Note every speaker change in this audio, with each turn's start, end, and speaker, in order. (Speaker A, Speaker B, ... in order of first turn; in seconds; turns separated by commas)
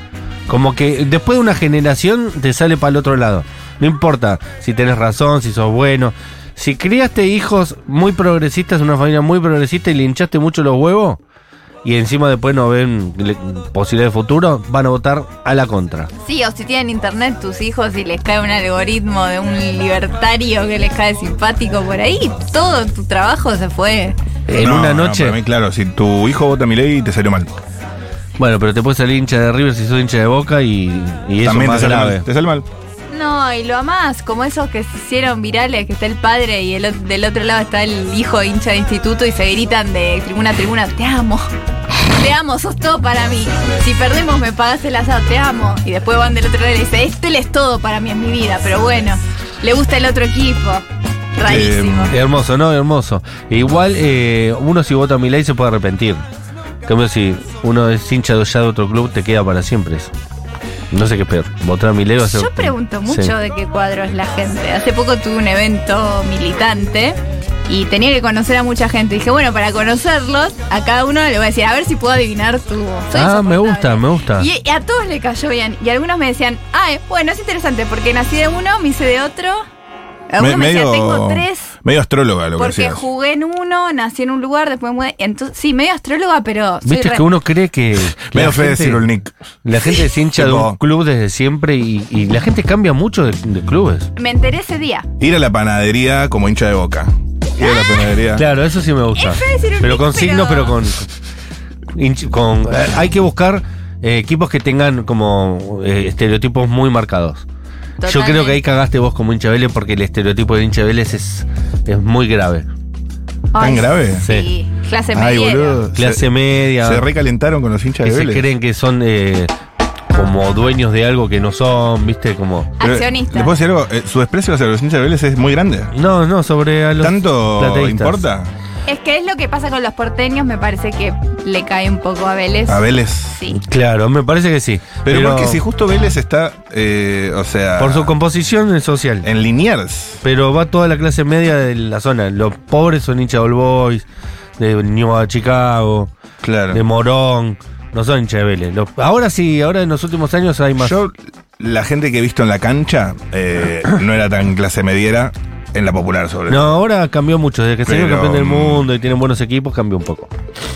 Speaker A: 0.5-11.2, Speaker A: 11.8-16.1, Speaker B: 16.2-24.1, Speaker A: 24.5-25.4, Speaker C: 24.5-27.5, Speaker A: 28.4-32.2, Speaker C: 31.4-32.6, Speaker B: 33.1-41.5, Speaker B: 42.1-50.9, Speaker B: 51.4-52.1, Speaker C: 51.4-52.1, Speaker A: 52.1-56.2, Speaker A: 56.9-60.1, Speaker A: 60.9-63.3, Speaker B: 62.2-79.6, Speaker A: 73.1-74.5, Speaker B: 80.3-81.7, Speaker C: 80.4-83.0, Speaker B: 82.6-87.2, Speaker A: 86.8-89.0, Speaker C: 88.3-89.3, Speaker A: 89.6-94.1, Speaker C: 89.9-90.8, Speaker B: 94.2-95.0, Speaker C: 95.2-98.4, Speaker B: 97.6-98.2, Speaker A: 98.3-101.1, Speaker B: 99.2-100.8, Speaker A: 101.9-107.4, Speaker B: 108.0-108.6, Speaker A: 108.0-112.7, Speaker B: 113.5-115.8, Speaker C: 113.6-114.2, Speaker A: 114.2-114.5, Speaker C: 115.1-118.5, Speaker A: 115.9-117.0, Speaker A: 118.0-119.5, Speaker A: 120.1-122.7, Speaker B: 122.8-123.5, Speaker C: 122.8-125.9, Speaker A: 125.9-128.2, Speaker C: 127.0-128.5, Speaker B: 128.9-133.6, Speaker C: 132.7-133.4, Speaker A: 133.6-135.6, Speaker C: 135.1-138.1, Speaker A: 137.8-139.3, Speaker C: 139.2-140.2, Speaker A: 140.2-144.0, Speaker A: 144.6-146.1, Speaker C: 146.4-146.8, Speaker A: 146.7-150.9, Speaker C: 150.8-156.8, Speaker A: 156.5-160.3, Speaker C: 157.9-158.9